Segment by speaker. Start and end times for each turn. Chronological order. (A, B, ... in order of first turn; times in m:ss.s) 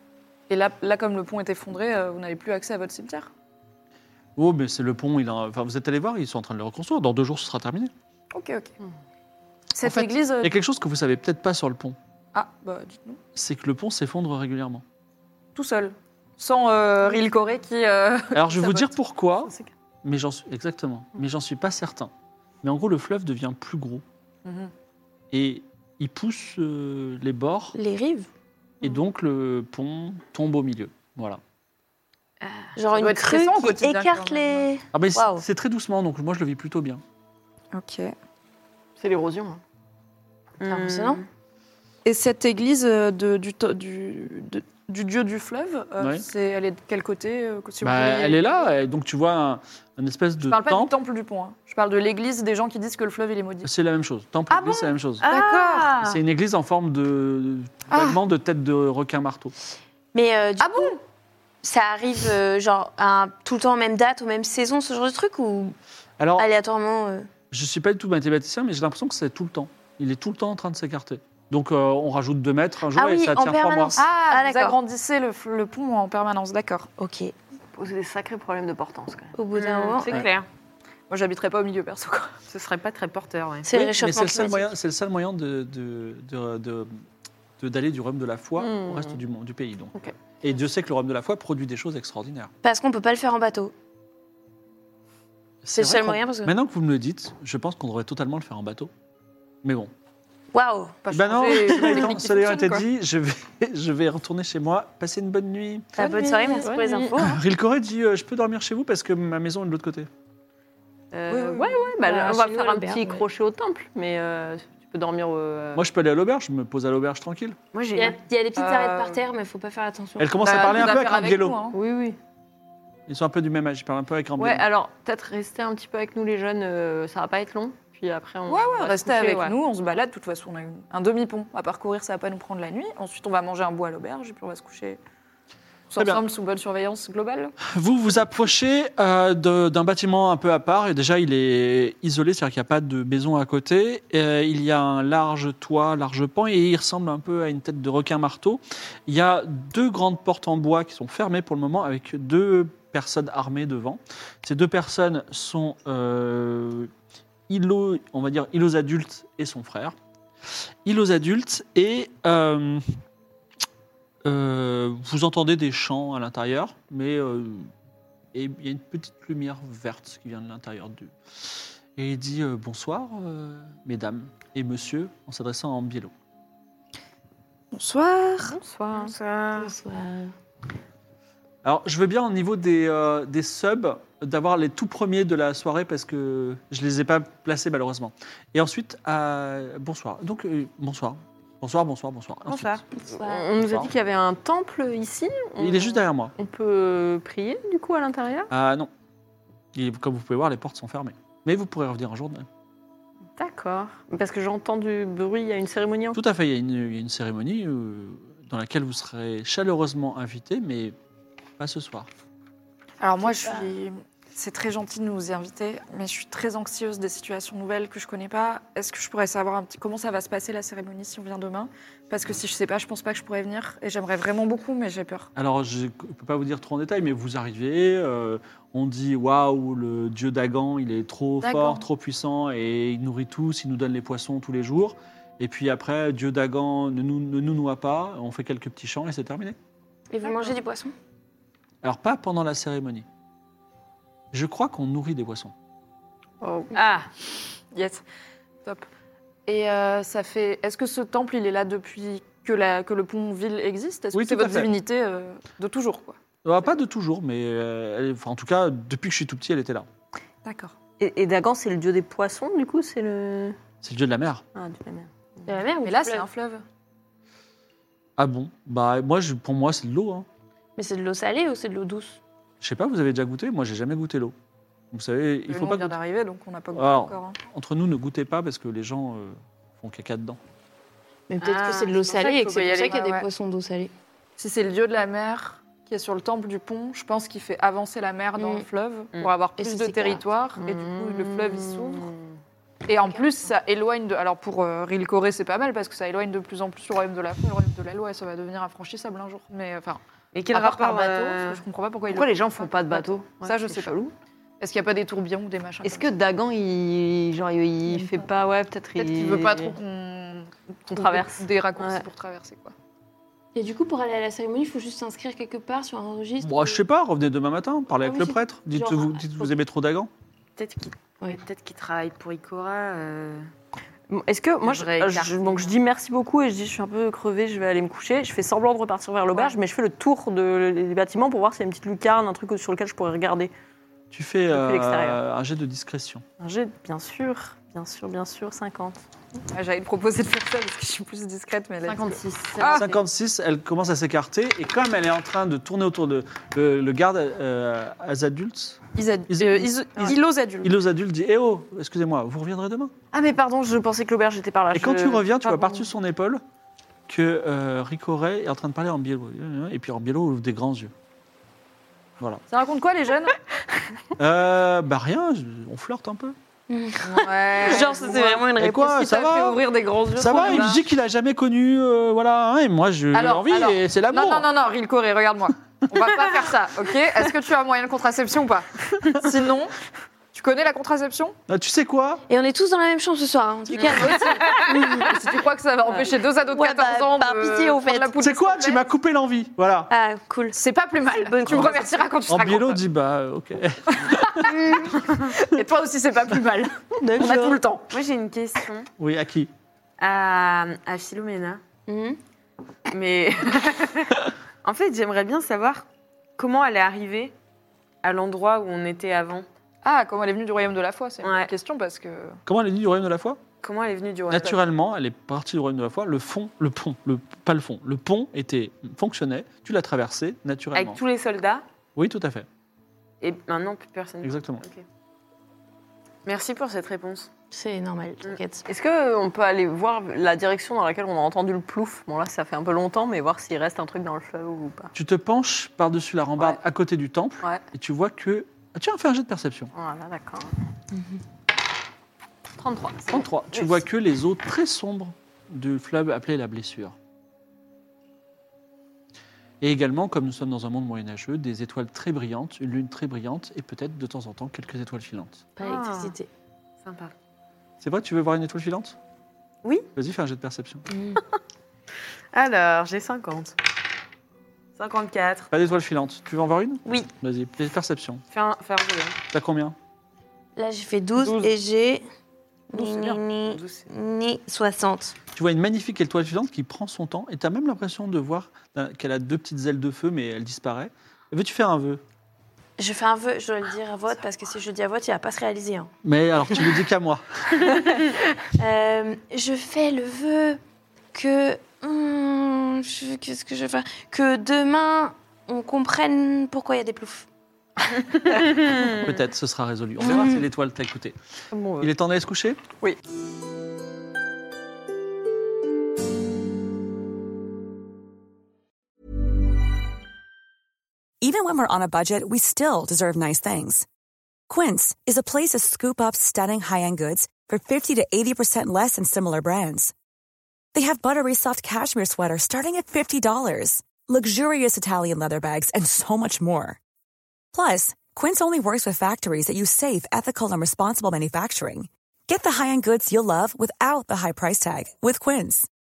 0:00.5-0:03.3 A
0:04.4-0:07.9 B
0:08.3-0:08.7 A
0:09.7-0:10.5 A
0:09.8-0:12.0 B
0:12.3-0:13.2 A
0:13.3-0:14.8 B
0:15.5-0:18.9 A
0:18.3-0:19.5 B
0:20.0-0:22.1 B
0:22.6-0:24.0 B
0:24.4-0:24.7 A
0:25.3-0:27.7 B
0:27.7-0:28.3 C
0:28.8-0:31.4 B
0:32.4-0:32.7 D
0:32.8-0:35.4 C
0:32.9-0:34.6 A
0:34.9-0:37.0 B
0:37.7-0:38.1 A
0:39.0-0:39.6 E
0:40.6-0:41.2 D
0:40.6-0:41.2 C
0:42.0-0:48.7 A
0:46.0-0:46.2 B
0:47.8-0:50.9 B
0:50.5-0:53.7 A
0:53.6-0:55.3 B
0:55.2-0:56.0 A
0:55.3-0:55.7 C
0:56.0-0:59.5 B
0:57.9-0:58.2 A
1:00.1-1:01.0 C
1:00.6-1:01.0 A
1:01.6-1:05.8 C
1:06.2-1:06.4 B
1:06.4-1:07.3 C
1:07.5-1:14.0 B
1:12.9-1:14.8 C
1:14.0-1:16.9 A
1:17.0-1:17.3 C
1:17.7-1:19.3 E
1:19.4-1:20.1 C
1:19.5-1:20.4 D
1:21.1-1:22.3 A
1:22.5-1:23.7 D
1:23.6-1:24.7 C
1:23.7-1:27.0 B
1:27.6-1:32.5 B
1:28.6-1:29.2 E
1:32.6-1:33.7 C
1:35.6-1:38.9 B
1:35.7-1:36.5 C
1:39.6-1:39.9 B
1:40.5-1:41.0 C
1:41.0-1:42.8 A
1:41.1-1:45.9 B
1:46.0-1:47.4 C
1:46.0-1:46.6 A
1:46.5-1:47.2 E
1:47.1-1:50.1 B
1:51.1-1:55.8 E
1:51.3-1:51.9 A
1:52.0-1:53.2 C
1:55.7-1:57.6 B
1:57.7-1:58.2 D
1:57.9-2:01.0 C
1:58.6-1:59.2 A
2:00.2-2:01.6 B
2:00.4-2:01.8 A
2:01.7-2:02.2 E
2:03.1-2:04.7 B
2:04.4-2:09.5 E
2:08.5-2:15.0 A
2:09.2-2:09.5 D
2:15.9-2:17.6 A
2:16.0-2:16.2 B
2:17.6-2:36.9 B
2:37.5-2:39.9 B
2:40.8-2:42.8 B
2:44.2-2:47.7 B
2:48.3-2:56.1 B
2:57.7-2:58.6 A
2:58.5-2:59.1 E
2:58.9-2:59.7 D
2:59.5-3:00.3 C
3:01.6-3:12.8 B
3:12.4-3:12.8 D
3:13.1-3:13.5 C
3:13.2-3:18.5 E
3:13.6-3:13.9 B
3:15.6-3:16.3 B
3:18.5-3:18.9 B
3:19.7-3:22.5 B
3:23.4-3:26.2 E
3:26.1-3:30.9 B
3:31.6-3:32.1 B
3:33.0-3:45.3 A
3:33.4-3:33.7 C
3:45.3-3:59.6 B
3:51.4-3:51.7 A
4:00.1-4:00.9 C
4:00.2-4:00.5 A
4:01.8-4:03.0 B
4:04.3-4:05.5 B
4:06.4-4:06.7 E
4:06.7-4:07.1 D
4:07.7-4:08.0 A
4:09.5-4:16.2 A
4:14.1-4:14.7 B
4:16.4-4:19.9 B
4:20.4-4:20.8 A
4:21.0-4:23.6 E
4:23.8-4:24.4 B
4:24.5-4:25.1 E
4:25.4-4:26.3 C
4:25.8-4:26.6 A
4:28.2-4:30.2 B
4:30.8-4:32.2 C
4:32.6-4:34.3 B
4:34.9-4:36.0 B
4:35.5-4:37.4 A
4:36.7-4:40.4 B
4:41.3-4:43.9 C
4:41.4-4:43.0 D
4:41.6-4:41.9 A
4:42.9-4:43.2 A
4:44.4-4:52.1 A
4:48.4-4:48.6 C
4:49.6-4:50.2 C
4:50.6-4:52.3 E
4:52.8-5:00.0 A
5:00.3-5:03.2 D
5:00.5-5:04.0 A
5:02.1-5:04.1 E
5:04.6-5:06.1 A
5:05.8-5:09.7 E
5:09.0-5:12.7 A
5:10.9-5:12.0 E
5:13.5-5:16.8 C
5:16.4-5:20.1 B
5:18.0-5:19.5 C
5:20.6-5:23.5 D
5:24.1-5:33.5 E
5:24.6-5:25.7 D
5:34.1-5:36.2 B
5:34.5-5:35.2 E
5:36.4-5:39.0 E
5:39.5-5:42.9 A
5:41.9-5:42.8 E
5:41.9-5:42.9 D
5:42.7-5:50.1 B
5:49.0-5:50.7 A
5:50.6-5:52.9 B
5:53.1-5:55.6 E
5:54.7-5:56.4 B
5:57.1-6:00.9 B
6:02.5-6:03.4 A
6:04.2-6:06.4 B
6:06.7-6:09.2 C
6:07.0-6:08.0 D
6:07.1-6:10.8 A
6:08.5-6:09.6 B
6:10.1-6:14.5 B
6:13.1-6:19.7 A
6:20.3-6:21.4 A
6:21.5-6:22.2 B
6:22.3-6:25.2 C
6:23.8-6:28.8 A
6:26.5-6:28.2 C
6:28.2-6:29.9 B
6:29.9-6:30.6 C
6:30.5-6:32.8 A
6:31.3-6:31.8 C
6:31.5-6:31.8 B
6:32.3-6:34.8 B
6:34.0-6:37.9 A
6:37.0-6:37.6 C
6:37.9-6:38.9 D
6:39.0-6:39.5 B
6:40.0-6:41.6 D
6:41.9-6:42.2 C
6:42.9-6:45.8 D
6:46.4-6:47.3 D
6:48.0-6:49.4 D
6:49.8-6:52.4 A
6:51.2-6:51.5 D
6:52.4-6:53.4 B
6:53.6-6:54.6 D
6:54.3-7:01.0 B
7:00.7-7:01.6 D
7:02.0-7:02.5 B
7:03.2-7:04.8 D
7:04.2-7:04.6 B
7:06.2-7:07.3 D
7:07.5-7:08.6 C
7:08.6-7:14.9 E
7:14.9-7:19.7 B
7:19.7-7:20.6 E
7:20.9-7:21.2 C
7:22.6-7:23.6 E
7:23.1-7:27.0 B
7:29.6-7:35.4 B
7:35.6-7:36.3 C
7:35.6-7:36.1 D
7:36.8-7:37.1 D
7:37.8-7:39.0 B
7:39.9-7:40.8 B
7:40.9-7:41.2 C
7:42.3-7:43.6 D
7:44.8-7:45.5 D
7:45.5-7:48.2 B
7:48.3-7:49.2 D
7:49.3-7:49.8 B
7:50.6-7:52.0 C
7:52.7-7:55.1 C
7:52.7-7:53.9 D
7:55.3-8:02.0 B
8:02.8-8:05.9 C
8:06.0-8:07.7 B
8:08.6-8:10.6 C
8:11.1-8:17.2 C
8:18.5-8:19.0 E
8:18.9-8:21.2 B
8:20.0-8:20.4 C
8:21.5-8:21.9 E
8:21.8-8:22.6 B
8:31.2-8:33.8 F
8:34.5-8:39.9 F
8:40.7-8:46.8 F
8:47.5-8:55.7 F